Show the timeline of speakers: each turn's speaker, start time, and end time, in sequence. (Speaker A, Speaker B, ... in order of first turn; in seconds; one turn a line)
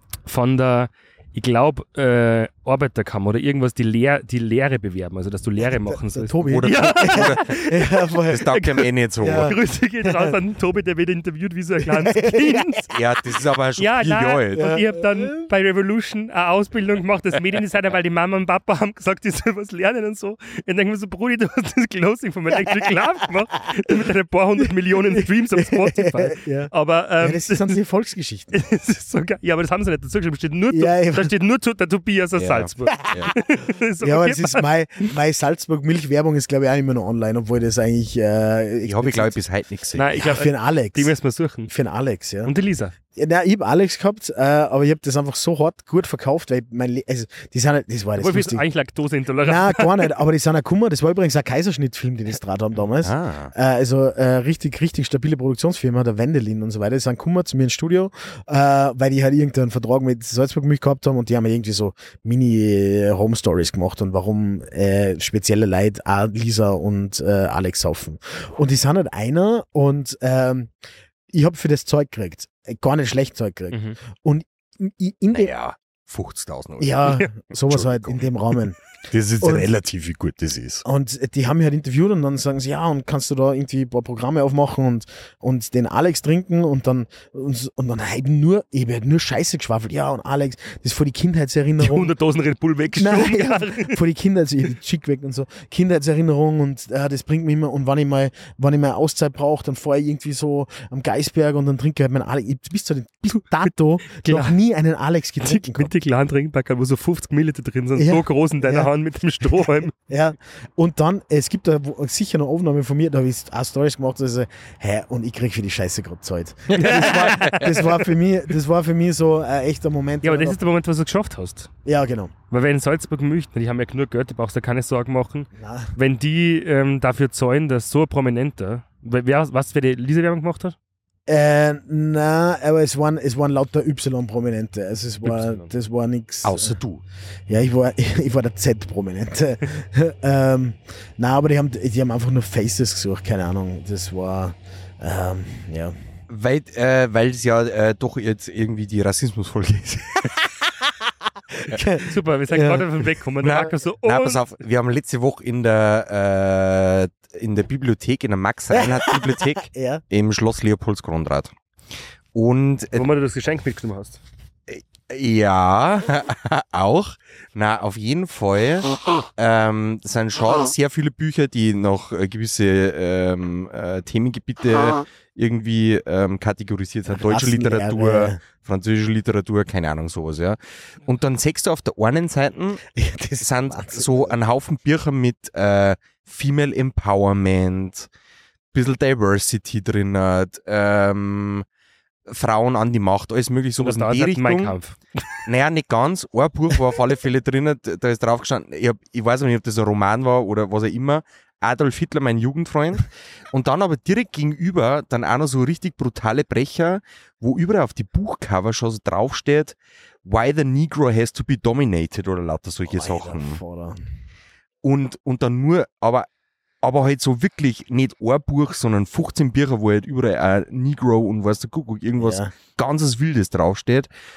Speaker A: 0.2-7.9
Speaker B: 5.9-8.6
Speaker C: 6.5-7.7
Speaker C: 8.3-9.5
Speaker A: 8.5-8.8
Speaker B: 9.2-10.3
Speaker A: 9.4-12.9
Speaker B: 11.8-12.8
Speaker C: 12.9-14.7
Speaker A: 13.8-27.8
Speaker B: 14.5-15.5
Speaker B: 25.1-28.6
Speaker A: 28.5-34.6
Speaker B: 30.7-31.3
Speaker C: 32.4-33.3
Speaker B: 34.0-39.3
Speaker C: 38.8-40.1
Speaker A: 40.0-41.7
Speaker B: 40.1-41.1
Speaker B: 41.7-42.5
Speaker A: 42.4-42.9
Speaker B: 43.1-48.6
Speaker A: 48.2-50.1
Speaker B: 49.4-70.7
Speaker C: 53.0-53.5
Speaker B: 71.3-75.5
Speaker A: 73.7-74.0
Speaker C: 75.3-77.1
Speaker B: 76.8-78.8
Speaker C: 77.7-78.3
Speaker C: 79.1-80.8
Speaker B: 79.4-79.7
Speaker B: 80.8-92.1
Speaker A: 91.8-94.0
Speaker B: 92.9-105.9
Speaker A: 104.1-104.5
Speaker A: 105.4-109.9
Speaker B: 108.0-108.9
Speaker B: 109.6-120.6
Speaker C: 116.7-117.8
Speaker A: 116.8-118.0
Speaker A: 120.2-121.7
Speaker B: 121.8-122.3
Speaker A: 122.5-130.7
Speaker B: 125.6-125.9
Speaker B: 131.3-136.8
Speaker A: 135.2-135.7
Speaker C: 136.4-137.0
Speaker B: 137.5-145.9
Speaker C: 146.3-150.5
Speaker B: 151.6-152.8
Speaker A: 152.0-154.4
Speaker C: 153.4-161.5
Speaker B: 158.7-160.0
Speaker C: 162.3-163.1
Speaker A: 162.9-164.2
Speaker C: 164.7-182.8
Speaker B: 177.1-178.4
Speaker B: 182.9-184.3
Speaker C: 183.4-188.1
Speaker C: 188.7-191.7
Speaker C: 192.3-194.8
Speaker A: 193.8-195.2
Speaker C: 195.4-213.6
Speaker B: 212.9-214.0
Speaker C: 214.8-216.3
Speaker C: 216.8-224.1
Speaker B: 222.2-222.5